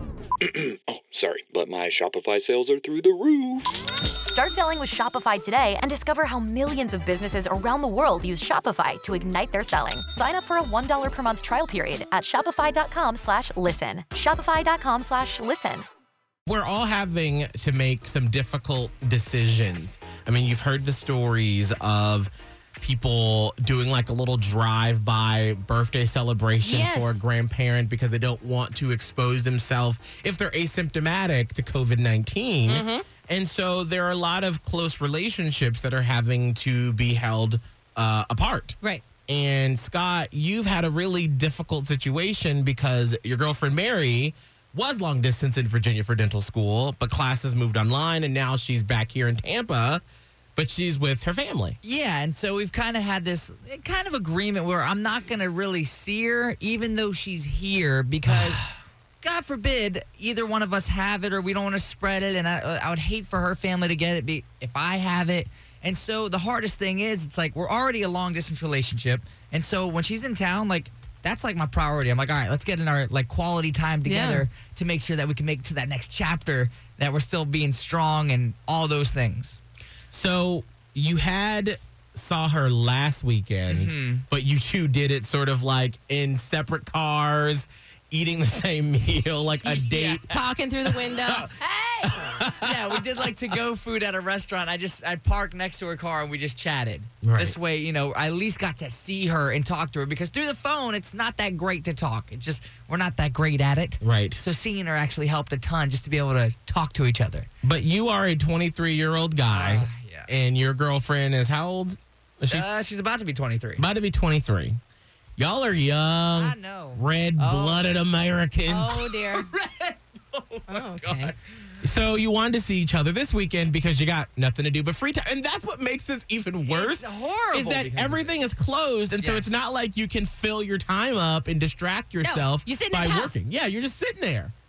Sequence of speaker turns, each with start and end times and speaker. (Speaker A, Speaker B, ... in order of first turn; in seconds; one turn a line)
Speaker A: 0.5-3.7
Speaker B: 4.2-15.8
Speaker C: 16.5-50.0
Speaker D: 26.6-27.2
Speaker D: 32.7-33.0
Speaker C: 50.6-51.8
Speaker E: 51.8-58.7
Speaker E: 59.2-79.6
Speaker D: 74.1-74.5
Speaker C: 80.1-91.5
Speaker E: 83.7-84.2
Speaker D: 89.7-92.4
Speaker C: 92.0-93.3
Speaker E: 92.7-107.5
Speaker C: 97.2-97.6
Speaker C: 104.0-104.4
Speaker C: 107.6-112.7
Speaker E: 109.5-110.3
Speaker E: 112.5-113.8
Speaker C: 113.8-114.8
Speaker C: 115.4-119.2
Speaker E: 116.3-117.9
Speaker D: 118.7-119.5
Speaker E: 119.3-121.6
Speaker D: 120.7-121.3
Speaker C: 121.8-134.5
Speaker E: 126.7-128.3
Speaker E: 129.2-129.6
Speaker D: 132.2-133.4